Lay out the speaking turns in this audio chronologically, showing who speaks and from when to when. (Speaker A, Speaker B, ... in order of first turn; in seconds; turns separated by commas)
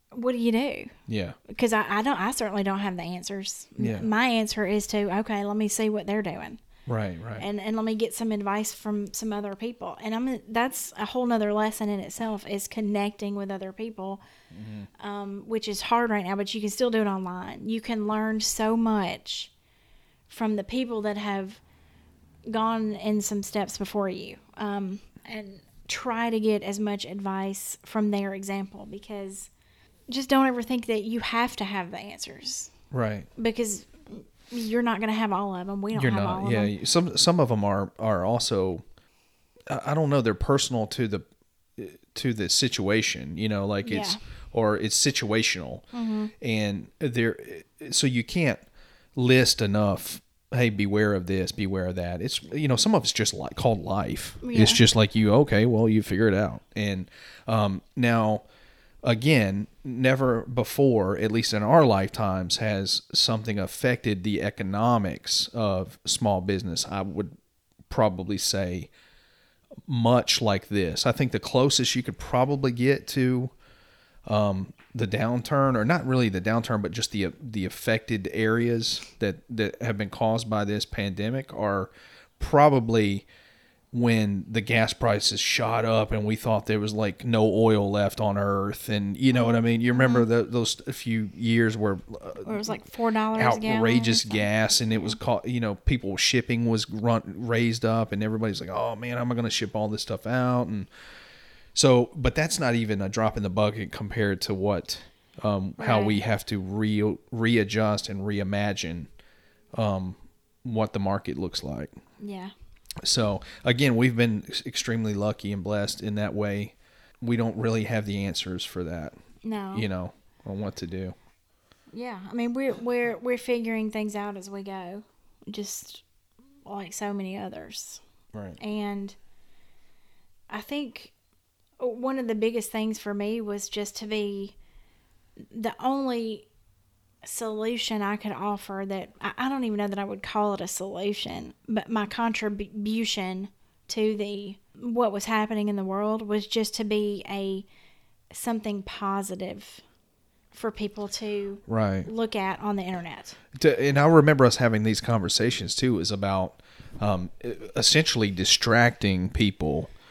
Speaker A: 0.1-0.9, Speaker B: 1.1-1.4, Speaker A: 1.5-6.6, Speaker B: 3.8-4.1, Speaker B: 6.9-7.5, Speaker A: 7.4-14.2, Speaker B: 14.5-14.9, Speaker A: 15.0-19.5, Speaker A: 20.3-21.6, Speaker A: 22.5-29.5, Speaker A: 30.1-32.7, Speaker B: 32.9-33.3, Speaker A: 33.4-36.7, Speaker B: 35.9-38.8, Speaker B: 39.7-41.3, Speaker B: 41.8-45.9, Speaker A: 43.8-44.2, Speaker A: 45.9-46.3, Speaker B: 46.4-48.6, Speaker B: 49.1-58.4, Speaker A: 54.4-54.8, Speaker B: 59.0-67.3, Speaker B: 67.9-68.9, Speaker B: 69.9-73.5, Speaker B: 74.3-83.3, Speaker B: 83.9-92.8, Speaker A: 89.3-90.3, Speaker A: 92.4-95.2, Speaker B: 93.3-100.9, Speaker B: 101.8-109.1, Speaker A: 105.8-106.2, Speaker B: 109.8-111.9, Speaker A: 112.2-112.5, Speaker B: 113.0-119.2, Speaker A: 119.4-119.9, Speaker B: 119.7-121.2, Speaker A: 121.9-126.0, Speaker A: 126.7-128.0, Speaker B: 128.3-128.6, Speaker A: 128.6-129.2, Speaker A: 130.5-131.1, Speaker A: 131.8-134.6, Speaker A: 135.5-136.5, Speaker A: 137.2-147.7, Speaker A: 148.3-149.8, Speaker A: 150.5-153.4, Speaker B: 151.7-152.1, Speaker B: 153.5-159.9